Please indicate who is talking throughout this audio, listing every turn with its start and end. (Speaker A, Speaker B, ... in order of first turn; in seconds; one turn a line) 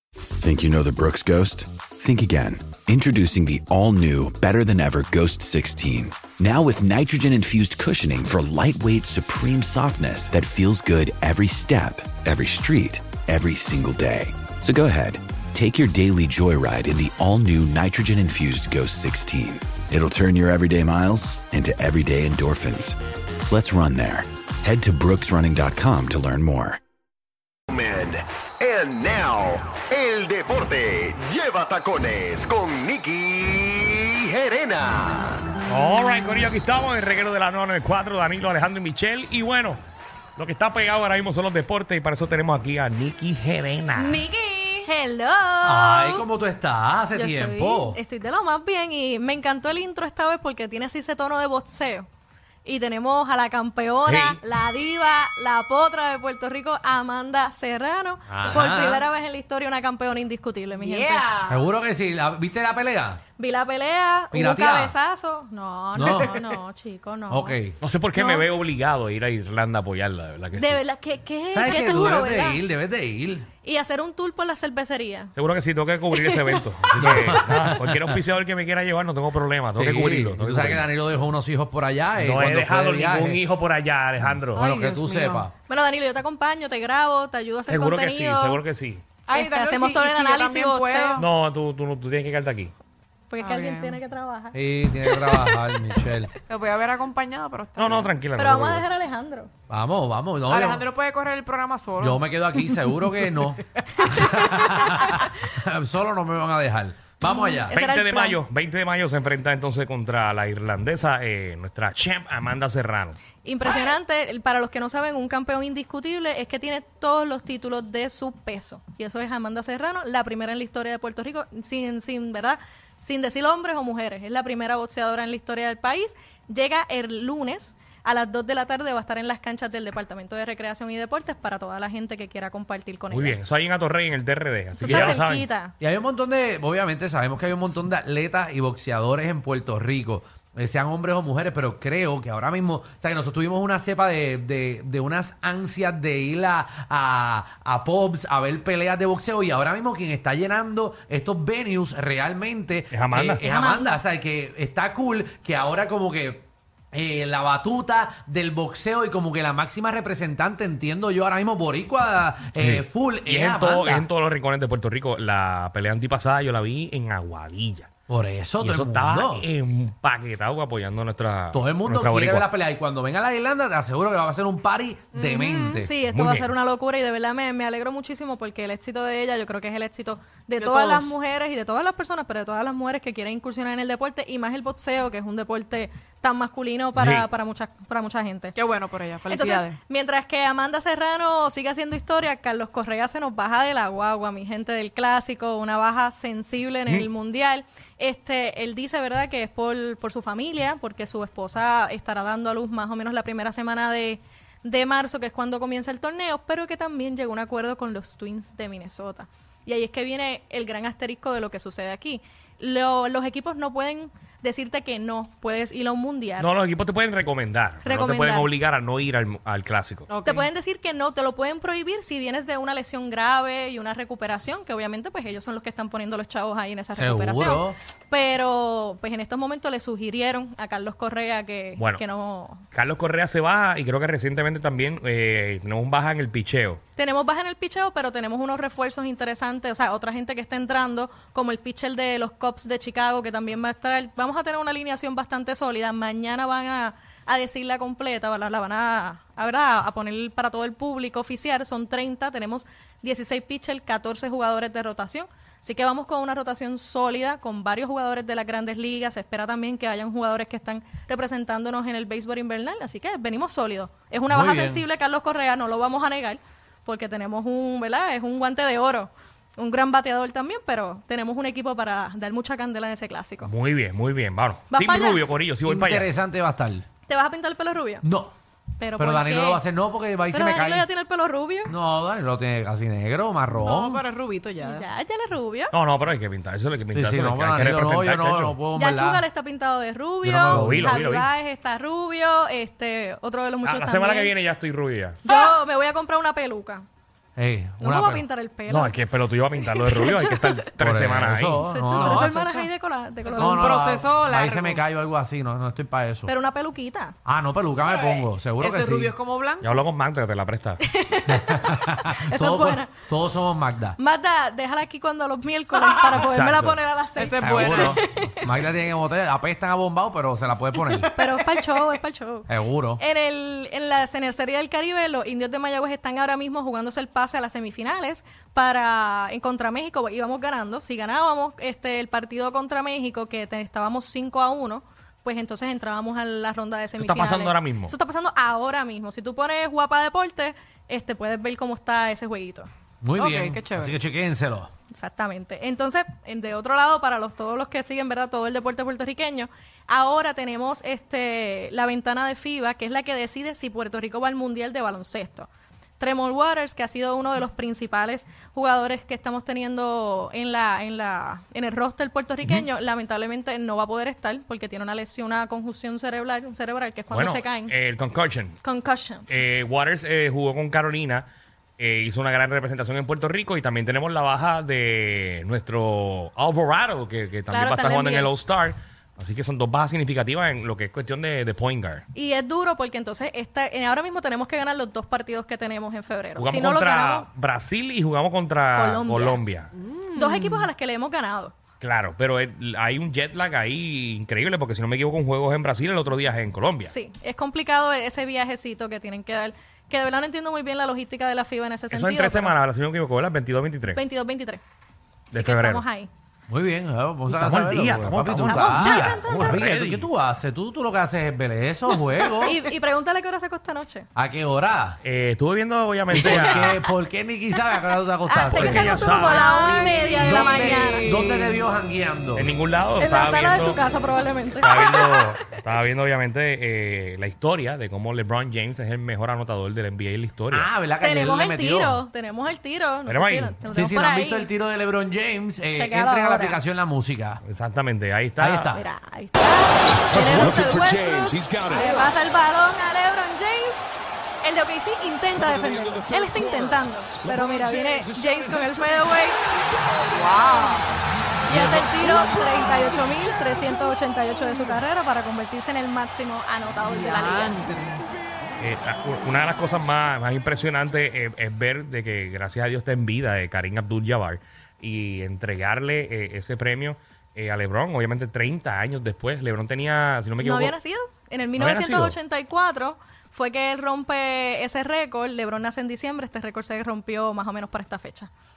Speaker A: 0.2-26.8
Speaker B: 27.7-35.5
Speaker C: 35.7-39.8
Speaker C: 40.4-44.2
Speaker D: 44.0-46.2
Speaker E: 45.6-48.0
Speaker D: 47.1-52.1
Speaker D: 52.6-61.4
Speaker C: 54.1-54.4
Speaker E: 58.3-59.0
Speaker F: 60.8-61.6
Speaker E: 61.5-63.2
Speaker D: 63.4-67.6
Speaker E: 64.3-65.0
Speaker E: 66.0-66.4
Speaker E: 67.3-67.8
Speaker C: 67.8-70.8
Speaker D: 68.1-68.5
Speaker D: 70.5-72.6
Speaker E: 71.5-73.5
Speaker D: 73.6-75.3
Speaker C: 75.4-80.9
Speaker D: 76.1-77.1
Speaker E: 76.9-78.2
Speaker E: 79.7-83.4
Speaker C: 82.2-84.7
Speaker F: 84.5-85.5
Speaker E: 84.5-85.5
Speaker D: 85.7-88.6
Speaker C: 87.7-89.0
Speaker F: 89.3-91.2
Speaker D: 89.3-91.2
Speaker C: 91.2-92.7
Speaker D: 93.3-94.6
Speaker F: 93.4-94.0
Speaker E: 94.5-96.3
Speaker F: 96.5-98.2
Speaker C: 97.8-98.9
Speaker D: 98.3-99.5
Speaker E: 99.7-100.9
Speaker F: 100.5-102.8
Speaker E: 102.0-107.8
Speaker F: 103.8-105.1
Speaker D: 107.2-108.4
Speaker C: 107.7-113.2
Speaker D: 113.4-133.4
Speaker C: 133.1-135.5
Speaker D: 134.8-135.7
Speaker E: 134.9-135.2
Speaker E: 135.8-164.1
Speaker C: 152.9-153.5
Speaker D: 153.5-154.0
Speaker C: 162.6-167.9
Speaker E: 168.1-169.5
Speaker C: 168.6-172.5
Speaker E: 171.5-175.9
Speaker F: 175.2-175.8
Speaker D: 175.4-188.6
Speaker C: 176.1-176.5
Speaker F: 180.6-181.1
Speaker C: 187.0-187.3
Speaker F: 188.6-189.8
Speaker D: 189.3-216.5
Speaker C: 216.4-220.1
Speaker D: 217.8-218.5
Speaker F: 220.1-220.5
Speaker D: 220.2-232.6
Speaker E: 227.0-227.8
Speaker C: 231.8-232.0
Speaker C: 232.7-236.8
Speaker D: 237.0-273.5
Speaker E: 264.3-264.9
Speaker C: 273.4-276.1
Speaker D: 274.7-275.3
Speaker E: 275.6-276.9
Speaker D: 277.1-278.1
Speaker E: 278.0-278.3
Speaker D: 278.8-279.6
Speaker E: 279.0-280.9
Speaker D: 280.3-281.7
Speaker E: 281.7-284.1
Speaker F: 283.6-284.9
Speaker D: 284.6-285.7
Speaker C: 285.7-288.6
Speaker E: 286.9-289.2
Speaker D: 288.7-294.3
Speaker E: 290.2-291.0
Speaker C: 290.5-291.3
Speaker C: 293.6-295.2
Speaker D: 295.2-296.9
Speaker E: 297.4-298.2
Speaker D: 297.8-299.0
Speaker C: 298.7-301.7
Speaker D: 299.8-300.6
Speaker E: 300.8-302.4
Speaker D: 301.7-303.9
Speaker F: 301.9-302.7
Speaker F: 303.2-304.8
Speaker E: 303.3-306.3
Speaker D: 306.3-307.1
Speaker E: 307.2-309.1
Speaker F: 307.9-309.9
Speaker C: 309.6-310.8
Speaker D: 310.8-313.0
Speaker E: 311.3-314.0
Speaker D: 314.0-318.4
Speaker C: 316.1-316.8
Speaker F: 317.2-318.0
Speaker E: 317.4-321.1
Speaker F: 321.1-321.6
Speaker D: 321.1-342.7
Speaker E: 322.5-323.0
Speaker C: 337.0-337.9
Speaker E: 343.0-344.7
Speaker F: 343.1-343.9
Speaker D: 344.9-355.5
Speaker D: 356.0-367.8
Speaker C: 367.1-368.6
Speaker D: 368.6-369.4
Speaker C: 369.3-371.3
Speaker C: 371.8-382.1
Speaker D: 377.5-378.3
Speaker D: 382.1-387.3
Speaker C: 386.4-389.7
Speaker D: 388.7-389.4
Speaker F: 389.8-390.7
Speaker D: 390.1-391.5
Speaker C: 391.8-396.9
Speaker D: 396.9-402.5
Speaker C: 401.9-404.0
Speaker D: 403.9-404.6
Speaker C: 405.3-405.9
Speaker D: 405.3-406.1
Speaker E: 406.5-412.6
Speaker C: 407.3-410.1
Speaker D: 408.4-409.6
Speaker F: 412.2-412.6
Speaker D: 412.4-414.1
Speaker E: 414.2-415.0
Speaker C: 415.0-416.8
Speaker E: 416.1-418.9
Speaker D: 418.3-421.2
Speaker C: 418.5-419.4
Speaker F: 419.0-421.4
Speaker E: 420.2-422.5
Speaker C: 422.4-423.8
Speaker D: 423.0-425.3
Speaker C: 424.6-430.7
Speaker E: 430.5-432.0
Speaker D: 431.0-434.5
Speaker C: 433.1-433.6
Speaker E: 433.7-437.4
Speaker D: 435.7-436.6
Speaker C: 437.4-438.8
Speaker E: 438.4-438.8
Speaker D: 438.7-443.9
Speaker F: 441.6-442.1
Speaker D: 444.4-449.4
Speaker F: 450.1-451.0
Speaker D: 451.5-457.6
Speaker F: 456.9-458.1
Speaker C: 458.6-470.8
Speaker D: 470.4-478.3
Speaker C: 471.6-472.2